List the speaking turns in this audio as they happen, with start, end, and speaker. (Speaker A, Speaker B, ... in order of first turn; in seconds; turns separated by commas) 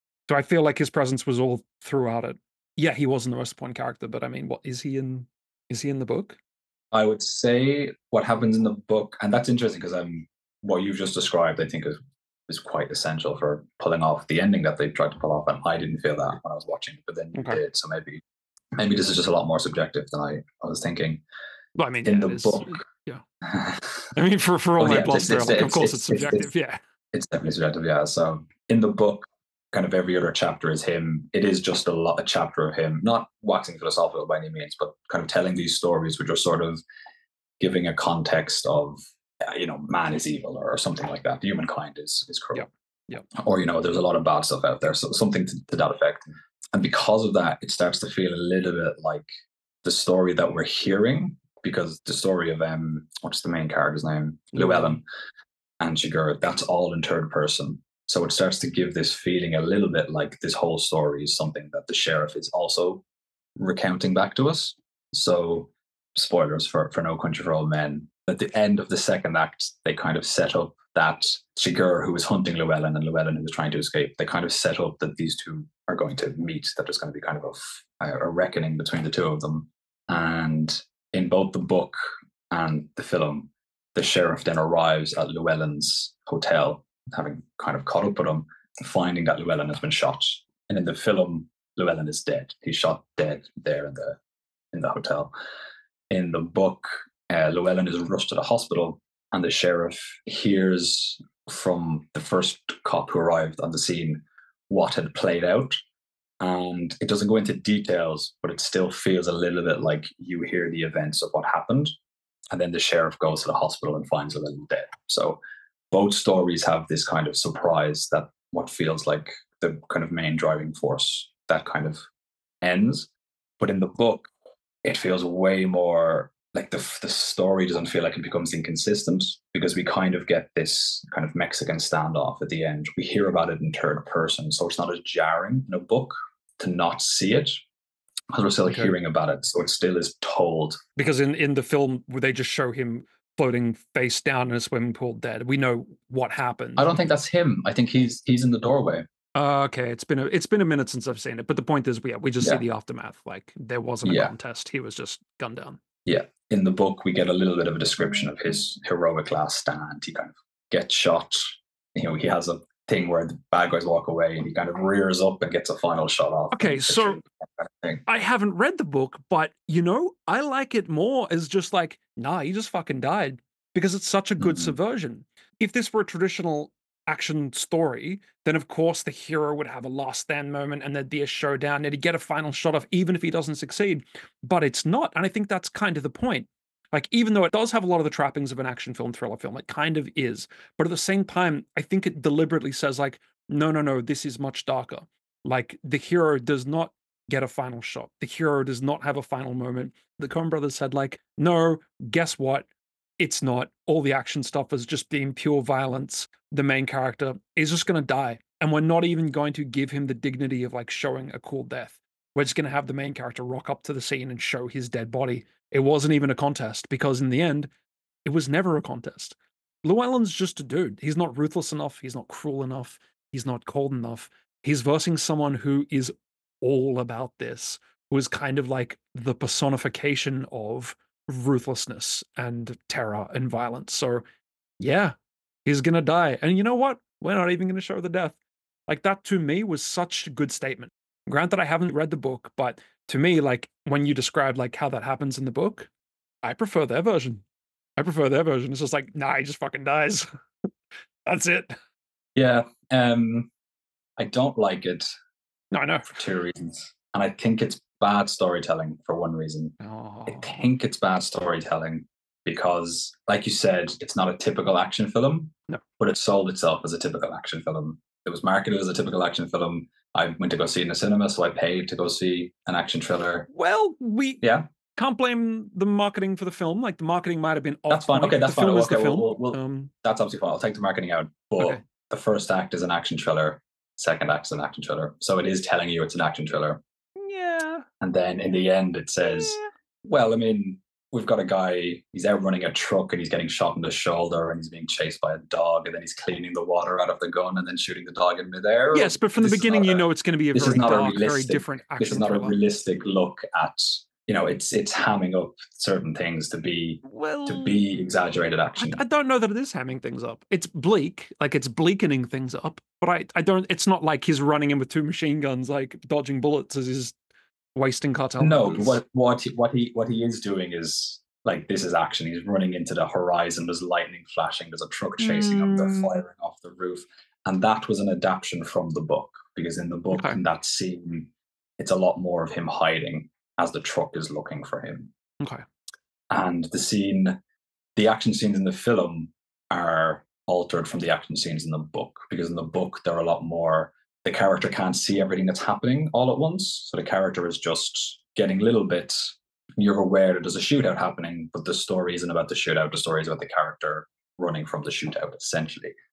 Speaker A: 0.3-6.4, Speaker B: 6.9-18.2, Speaker A: 17.4-17.6, Speaker B: 18.8-21.2, Speaker A: 21.8-23.2, Speaker B: 22.1-22.8, Speaker B: 23.4-24.1, Speaker A: 24.1-26.8, Speaker B: 24.8-26.5, Speaker B: 27.1-36.8, Speaker B: 37.6-42.7, Speaker A: 42.5-43.3, Speaker B: 43.3-49.3, Speaker B: 49.8-55.0, Speaker A: 54.5-55.0, Speaker B: 55.8-63.0, Speaker B: 63.6-82.0, Speaker B: 82.5-94.2, Speaker B: 94.7-95.3, Speaker B: 96.1-105.8, Speaker B: 106.4-111.9, Speaker B: 112.5-115.4, Speaker B: 115.9-122.0, Speaker B: 122.6-123.1, Speaker B: 123.6-124.3, Speaker B: 124.8-137.6, Speaker B: 138.3-140.8, Speaker A: 138.7-138.9, Speaker A: 141.0-146.9, Speaker B: 146.8-149.1, Speaker A: 149.3-155.8, Speaker B: 154.1-154.3, Speaker B: 156.1-168.0, Speaker A: 166.5-167.2, Speaker A: 168.1-202.7, Speaker B: 174.4-174.8, Speaker A: 203.2-217.7, Speaker A: 218.3-234.2, Speaker A: 234.8-238.4, Speaker A: 238.9-245.9, Speaker A: 246.4-247.4, Speaker A: 248.0-250.3, Speaker A: 251.3-251.8, Speaker B: 252.4-253.5, Speaker B: 254.2-255.1, Speaker A: 255.7-256.2, Speaker B: 256.1-259.8, Speaker A: 259.8-260.6, Speaker B: 260.3-273.5, Speaker A: 273.5-274.4, Speaker B: 274.4-274.7, Speaker A: 275.0-279.9, Speaker B: 277.9-286.8, Speaker A: 287.1-287.9, Speaker B: 288.0-309.0, Speaker A: 289.2-289.7, Speaker A: 298.9-302.6, Speaker A: 307.0-307.8, Speaker A: 308.8-317.2, Speaker A: 317.8-319.0, Speaker B: 318.4-335.1, Speaker A: 325.2-326.2, Speaker A: 330.1-330.4, Speaker A: 335.4-335.6, Speaker B: 336.3-337.4, Speaker B: 338.0-355.9